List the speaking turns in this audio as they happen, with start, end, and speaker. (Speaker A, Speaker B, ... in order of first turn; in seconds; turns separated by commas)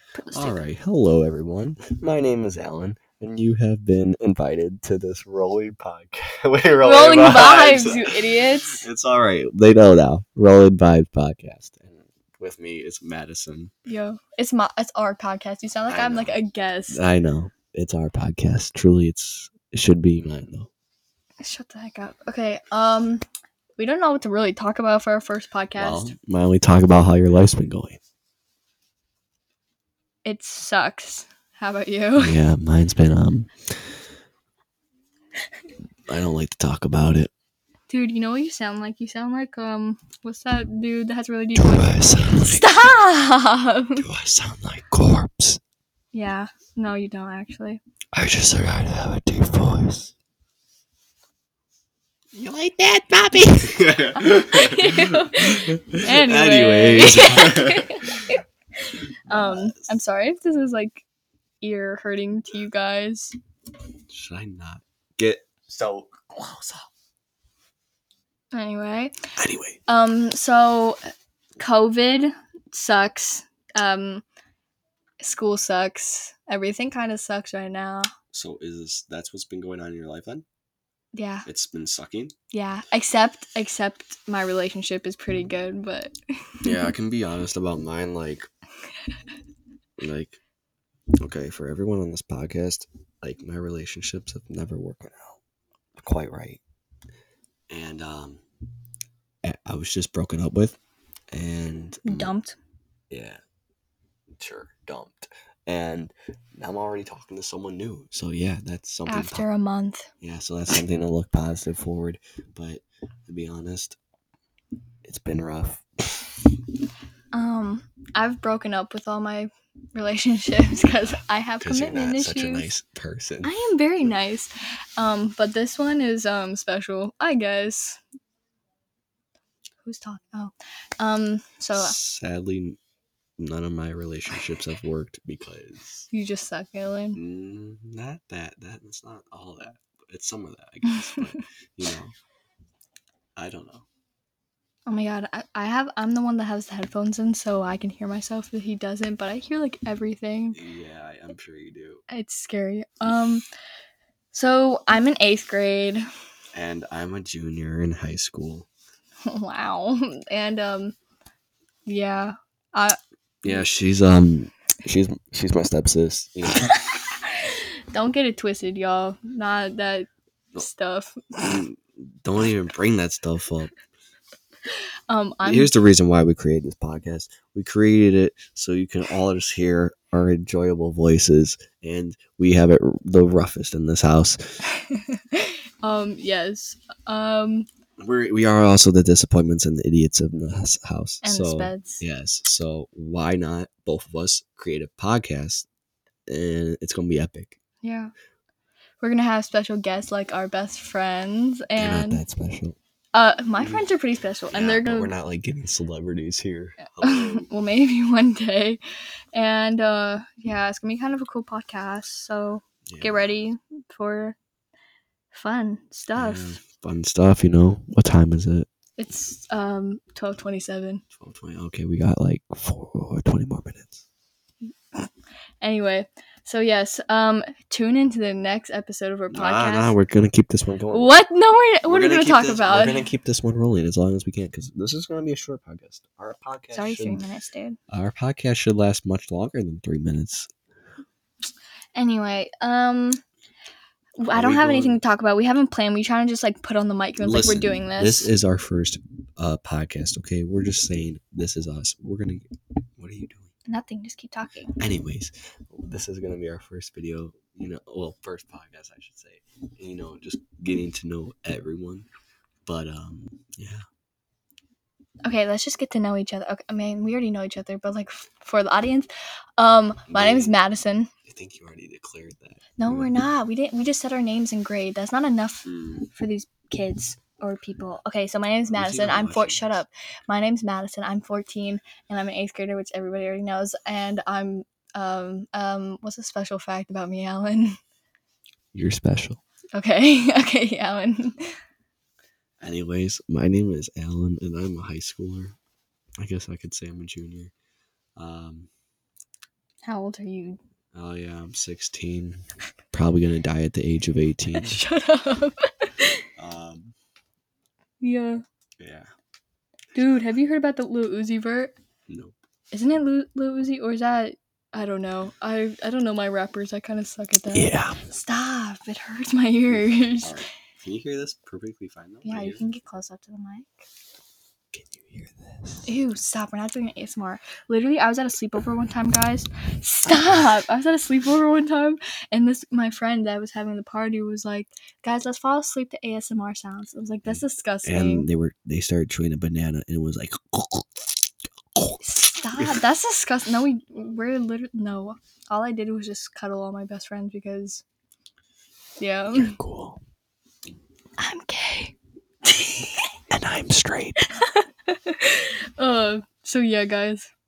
Speaker A: 0.1-0.6, Speaker B: 0.3-13.7, Speaker A: 6.8-8.8, Speaker A: 13.9-17.0, Speaker B: 15.9-16.4, Speaker B: 16.9-20.7, Speaker A: 21.4-23.2, Speaker A: 23.8-26.1, Speaker B: 25.8-28.0, Speaker A: 30.2-32.4, Speaker B: 32.2-34.0, Speaker B: 36.1-37.3, Speaker A: 37.9-44.0, Speaker B: 41.5-42.7, Speaker B: 44.0-45.6, Speaker A: 46.1-47.8, Speaker B: 48.1-50.1, Speaker B: 52.3-58.3, Speaker A: 54.2-61.0, Speaker B: 59.3-60.0, Speaker A: 61.6-63.4, Speaker B: 64.1-66.9, Speaker A: 68.5-69.1, Speaker B: 69.4-69.8, Speaker A: 69.9-71.0, Speaker A: 71.6-74.2, Speaker A: 75.2-78.1, Speaker B: 78.3-80.4, Speaker A: 81.1-81.5, Speaker B: 81.4-82.3, Speaker A: 82.5-86.9, Speaker B: 86.6-88.5, Speaker B: 90.0-90.4, Speaker B: 91.2-95.4, Speaker B: 96.0-96.6, Speaker B: 97.7-98.4, Speaker B: 99.4-100.8, Speaker B: 101.3-102.3, Speaker A: 102.0-102.6, Speaker B: 103.1-103.4, Speaker B: 104.4-109.5, Speaker A: 109.0-110.1, Speaker B: 110.2-114.0, Speaker B: 115.0-116.3, Speaker A: 117.3-122.7, Speaker B: 121.0-123.6, Speaker A: 123.4-128.0, Speaker A: 129.8-131.9, Speaker B: 131.7-132.8, Speaker B: 133.4-136.1, Speaker A: 136.1-137.2, Speaker B: 137.1-142.1, Speaker A: 140.9-141.2, Speaker B: 143.3-143.8, Speaker A: 144.9-150.6, Speaker B: 150.5-152.0, Speaker A: 152.1-153.4, Speaker A: 154.3-156.1, Speaker B: 156.5-158.7, Speaker A: 159.2-160.9, Speaker A: 161.8-163.6, Speaker B: 163.4-166.7, Speaker A: 166.7-171.6, Speaker B: 171.4-173.7, Speaker A: 175.1-175.8, Speaker B: 175.4-184.4, Speaker A: 184.8-187.7, Speaker B: 188.0-195.7, Speaker A: 191.2-192.0, Speaker B: 196.3-197.6, Speaker A: 197.8-198.1, Speaker A: 199.0-202.2, Speaker B: 201.8-202.8, Speaker A: 203.1-205.1, Speaker B: 204.5-207.5, Speaker A: 207.0-208.8, Speaker A: 209.3-214.4, Speaker B: 212.9-213.2, Speaker A: 215.3-216.6, Speaker B: 216.1-218.7, Speaker A: 219.0-221.0, Speaker B: 221.1-224.0, Speaker A: 225.6-229.9, Speaker B: 229.3-231.1, Speaker A: 230.9-233.0, Speaker B: 231.8-237.2, Speaker A: 236.7-237.8, Speaker B: 237.9-240.5, Speaker A: 241.9-243.2, Speaker A: 244.2-248.3, Speaker B: 244.3-245.0, Speaker B: 247.2-252.4, Speaker B: 253.0-253.5, Speaker A: 253.7-254.8, Speaker B: 254.8-262.1, Speaker B: 262.6-263.8, Speaker A: 265.2-271.1, Speaker B: 270.1-270.6, Speaker B: 271.2-273.1, Speaker A: 272.8-287.8, Speaker B: 275.6-276.1, Speaker B: 278.7-279.8, Speaker B: 288.7-289.4, Speaker A: 289.8-291.5, Speaker B: 292.6-295.6, Speaker B: 296.2-297.5, Speaker B: 298.1-298.7, Speaker A: 299.8-300.6, Speaker B: 300.9-302.4, Speaker B: 302.9-304.8, Speaker A: 304.5-306.1, Speaker B: 306.4-306.9, Speaker A: 308.0-308.4, Speaker B: 308.8-309.1, Speaker A: 309.9-311.7, Speaker B: 312.1-312.3, Speaker A: 312.7-320.4, Speaker B: 317.5-318.0, Speaker B: 319.7-322.6, Speaker A: 322.2-323.8, Speaker B: 324.7-325.9, Speaker A: 325.9-338.3, Speaker B: 337.2-342.0, Speaker A: 342.0-347.8, Speaker B: 342.6-342.8, Speaker A: 349.0-349.6, Speaker B: 349.3-350.0, Speaker A: 351.2-353.1, Speaker B: 353.3-354.2, Speaker A: 354.3-357.3